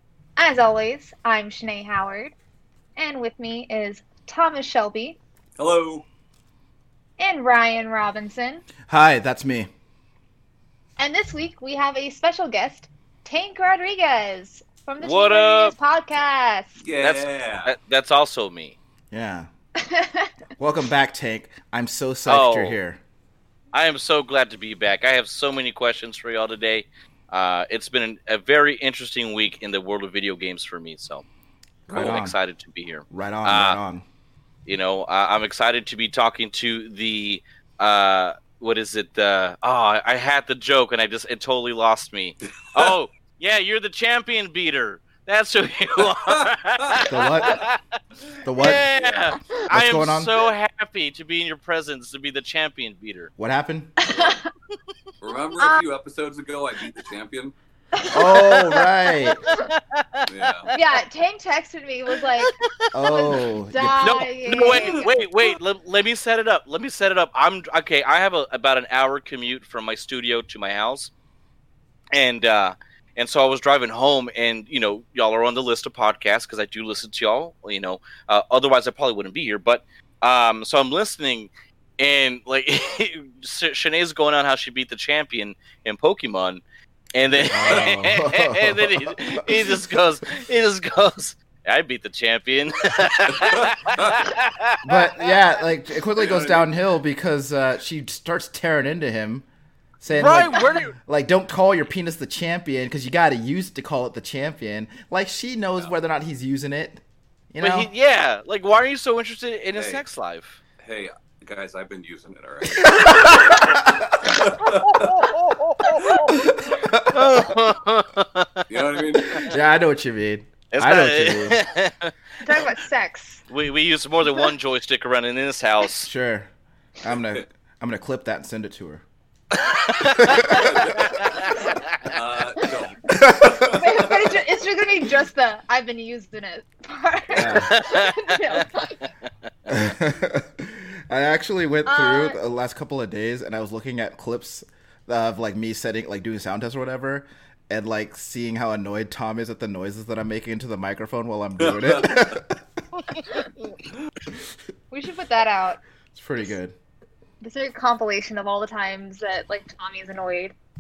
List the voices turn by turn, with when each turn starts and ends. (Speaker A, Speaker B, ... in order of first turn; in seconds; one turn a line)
Speaker A: 0.4-2.3
Speaker A: 3.0-5.2
Speaker B: 5.6-6.0
Speaker A: 7.2-8.7
Speaker C: 8.9-9.7
Speaker A: 11.0-16.8
Speaker D: 15.0-15.8
Speaker B: 16.8-17.7
Speaker D: 17.0-18.8
Speaker C: 19.1-19.5
Speaker A: 19.8-20.3
Speaker C: 20.6-23.0
Speaker D: 22.3-22.8
Speaker D: 23.7-31.2
Speaker C: 31.9-32.4
Speaker D: 31.9-33.8
Speaker C: 33.1-34.0
Speaker D: 34.7-47.8
Speaker B: 46.0-47.1
Speaker C: 47.1-47.6
Speaker C: 48.4-48.9
Speaker D: 48.5-53.3
Speaker B: 48.9-49.2
Speaker C: 49.7-50.3
Speaker C: 53.4-53.9
Speaker A: 54.0-54.5
Speaker B: 55.2-57.5
Speaker A: 55.6-55.8
Speaker A: 57.9-59.7
Speaker C: 58.1-59.4
Speaker D: 59.5-60.9
Speaker B: 60.3-60.7
Speaker A: 60.7-65.5
Speaker D: 62.4-63.2
Speaker C: 62.9-64.3
Speaker D: 63.9-71.1
Speaker D: 72.1-86.6
Speaker D: 87.2-95.3
Speaker C: 87.5-89.8
Speaker B: 93.3-94.3
Speaker C: 94.8-99.5
Speaker B: 96.2-96.7
Speaker C: 100.0-107.9
Speaker D: 100.1-100.9
Speaker D: 107.6-110.6
Speaker B: 109.8-110.0
Speaker B: 110.8-115.3
Speaker C: 113.0-114.1
Speaker D: 115.8-116.2
Speaker A: 115.9-116.3
Speaker C: 116.3-117.5
Speaker D: 117.1-118.7
Speaker B: 118.7-119.5
Speaker C: 119.2-121.6
Speaker D: 120.7-122.7
Speaker A: 122.4-123.4
Speaker D: 123.5-126.1
Speaker C: 126.0-126.5
Speaker C: 127.0-129.0
Speaker D: 129.6-132.1
Speaker C: 130.2-130.8
Speaker B: 130.3-134.1
Speaker C: 133.1-134.1
Speaker A: 133.7-139.1
Speaker C: 137.3-137.7
Speaker D: 137.5-138.7
Speaker C: 139.7-152.6
Speaker A: 141.9-142.4
Speaker B: 151.6-152.4
Speaker A: 154.9-155.8
Speaker C: 156.1-156.8
Speaker A: 157.4-160.6